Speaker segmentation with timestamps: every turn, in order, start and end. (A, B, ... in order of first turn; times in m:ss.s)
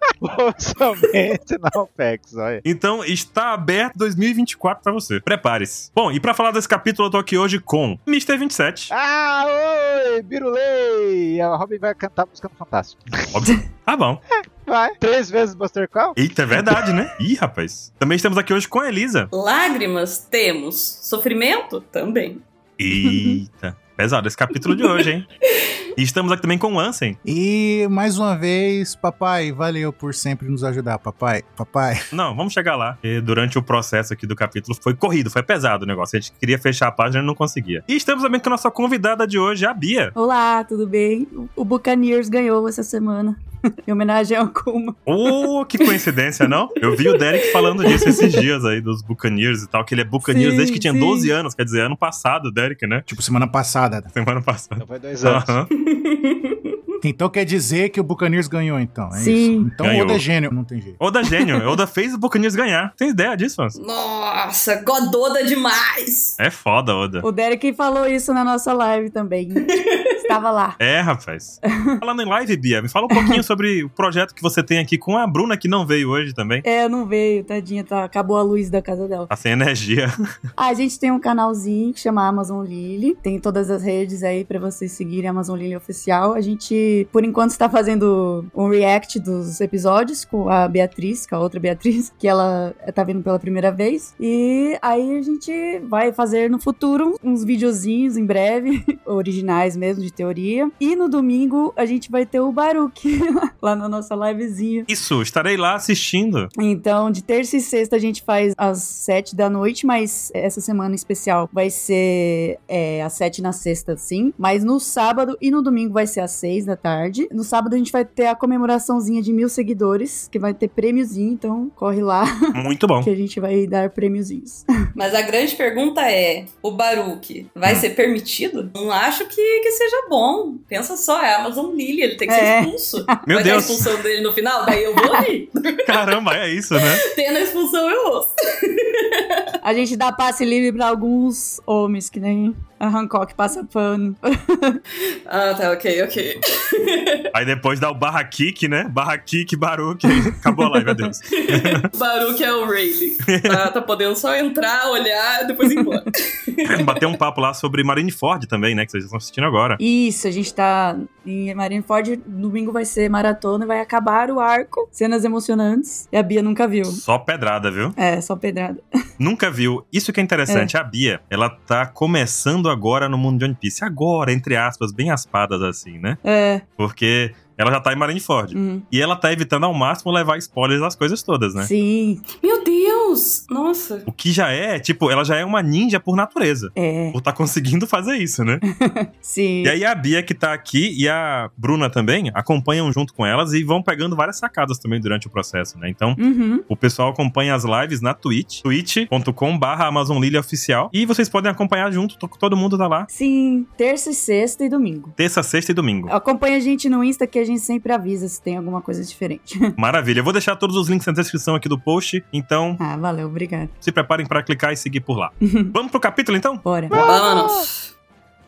0:00.2-0:02.6 A
0:02.6-0:08.9 B
0:08.9-0:13.4 A
0:13.3-0:14.2 B
0:14.7-0:16.2 A
0:16.2-0:19.3 B
0:19.3-0:22.4 C
0:22.8-0:25.3 B
0:23.0-0:23.4 D
0:24.7-0:25.7 C
0:26.0-0:27.2 B
0:27.2-0:32.0 E
0:32.1-0:40.2 B
0:40.2-0:45.4 D
0:45.1-0:53.1 B
0:50.2-0:51.3 D
0:53.1-0:54.1 E
0:54.1-0:55.7 B
0:54.8-0:55.6 A
0:55.7-0:56.8 C
0:57.0-1:01.0 E
0:59.1-0:59.7 D
0:59.8-1:00.2 B
1:01.0-1:03.8 B
1:03.8-1:06.4 C
1:06.4-1:07.2 B
1:07.2-1:10.8 D
1:09.6-1:10.3 C
1:10.8-1:16.6 B
1:11.7-1:12.0 D
1:13.1-1:13.4 D
1:16.6-1:19.3 D
1:19.3-1:20.2 B
1:20.6-1:44.9 D
1:44.9-1:46.5 B
1:46.6-2:04.6 D
2:02.5-2:03.1 B
2:05.0-2:16.1 C
2:12.3-2:13.2 D
2:13.2-2:13.9 B
2:14.8-2:15.2 D
2:15.8-2:17.0 B
2:16.8-2:19.4 C
2:19.6-2:24.8 D
2:25.1-2:27.3 C
2:27.3-2:31.8 B
2:30.1-2:30.9 D
2:31.3-2:37.0 C
2:33.3-2:33.7 B
2:35.6-2:35.9 D
2:36.6-2:39.8 B
2:39.8-2:47.0 D
2:46.9-2:48.0 B
2:48.0-2:48.8 D
2:49.2-2:56.2 B
2:56.2-2:56.6 D
2:56.8-3:01.7 B
2:58.5-2:58.8 D
3:01.6-3:02.2 D
3:02.4-3:04.1 C
3:04.1-3:08.6 B
3:06.8-3:07.2 D
3:08.7-3:09.8 D
3:09.6-3:23.1 B
3:16.2-3:16.6 D
3:23.1-3:25.1 D
3:25.2-3:26.1 B
3:26.1-3:29.7 D
3:29.8-3:32.8 B
3:32.8-3:33.7 D
3:33.8-3:36.6 B
3:35.4-3:35.8 D
3:36.6-3:37.0 D
3:36.9-3:37.7 A
3:36.9-3:37.9 C